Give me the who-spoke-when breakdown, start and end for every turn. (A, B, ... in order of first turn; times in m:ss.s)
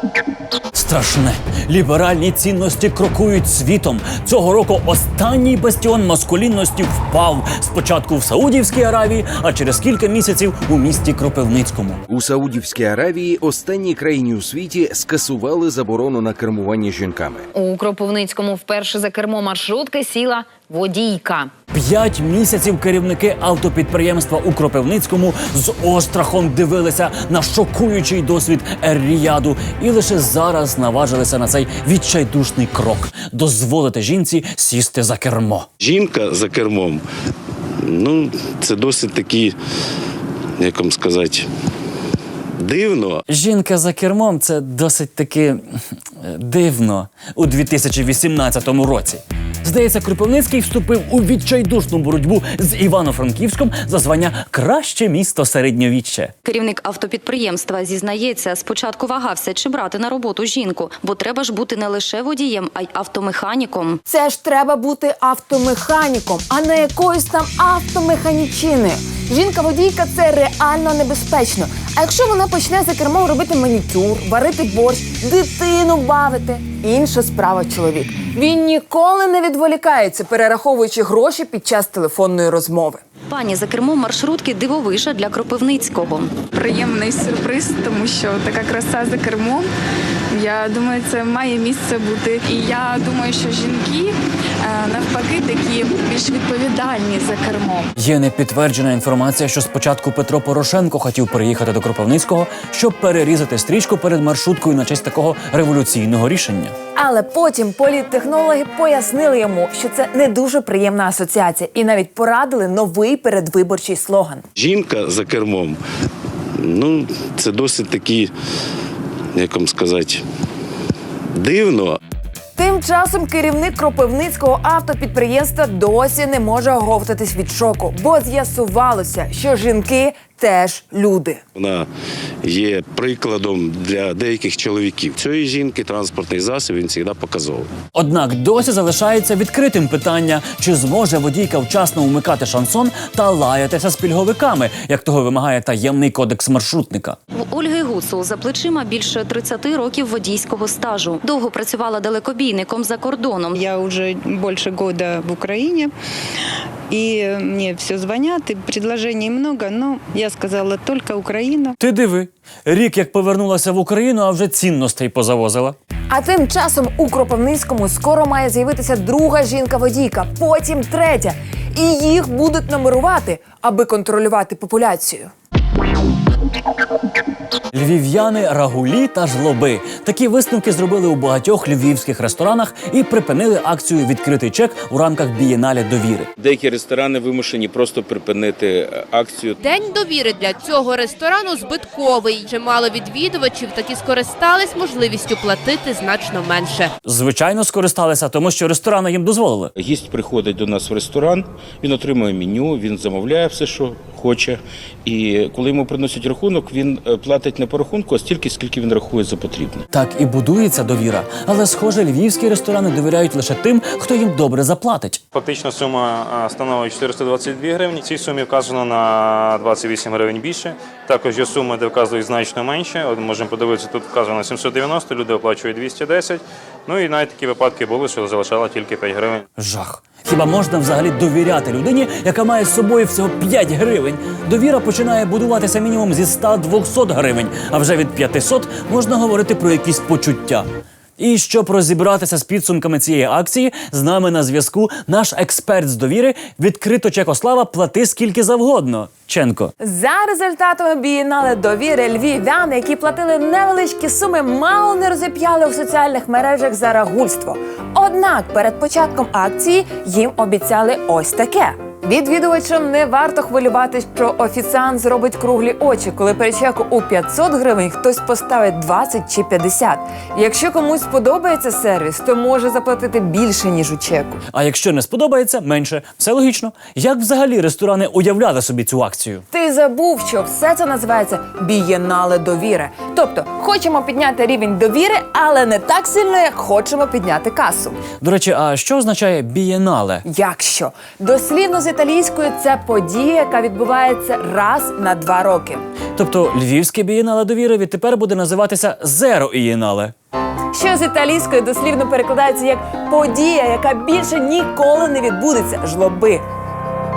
0:00.7-0:12.0 A
0:12.1-0:17.5 B
0:17.5-0:21.5 C
0:21.7-0:35.7 A
0:35.8-0:37.0 D
0:37.8-0:39.6 D
0:40.6-0:41.5 D
0:42.6-0:43.2 D
0:43.3-0:45.6 A
0:46.2-0:56.3 A
0:56.4-1:04.0 E
1:04.1-1:23.0 F
1:23.3-1:26.4 E
1:26.5-1:29.6 G
1:30.3-1:34.1 G
1:34.6-1:37.9 G
1:38.0-1:46.8 A
1:47.0-1:54.4 F
1:54.6-1:55.8 D
1:56.6-1:58.3 D
1:59.3-2:00.2 D
2:01.3-2:02.0 D
2:02.6-2:11.4 F
2:11.6-2:11.9 D
2:12.4-2:17.7 D
2:17.9-2:27.2 A
2:27.3-2:33.6 E
2:33.5-2:35.9 H
2:36.9-2:41.8 H
2:41.8-2:45.8 A
2:46.1-2:55.3 F
2:57.7-3:06.3 A
3:06.4-3:09.6 I
3:09.6-3:16.9 J
3:17.0-3:19.7 A
3:19.8-3:29.8 I
3:29.9-3:35.2 A
3:35.3-3:49.4 K
3:49.6-4:00.6 A
4:01.2-4:09.7 A
4:09.8-4:34.4 F
4:34.5-4:39.4 A
4:39.5-4:48.0 F
4:48.2-4:50.2 A
4:50.3-4:55.9 F
4:56.2-5:00.1 A
5:00.7-5:06.4 F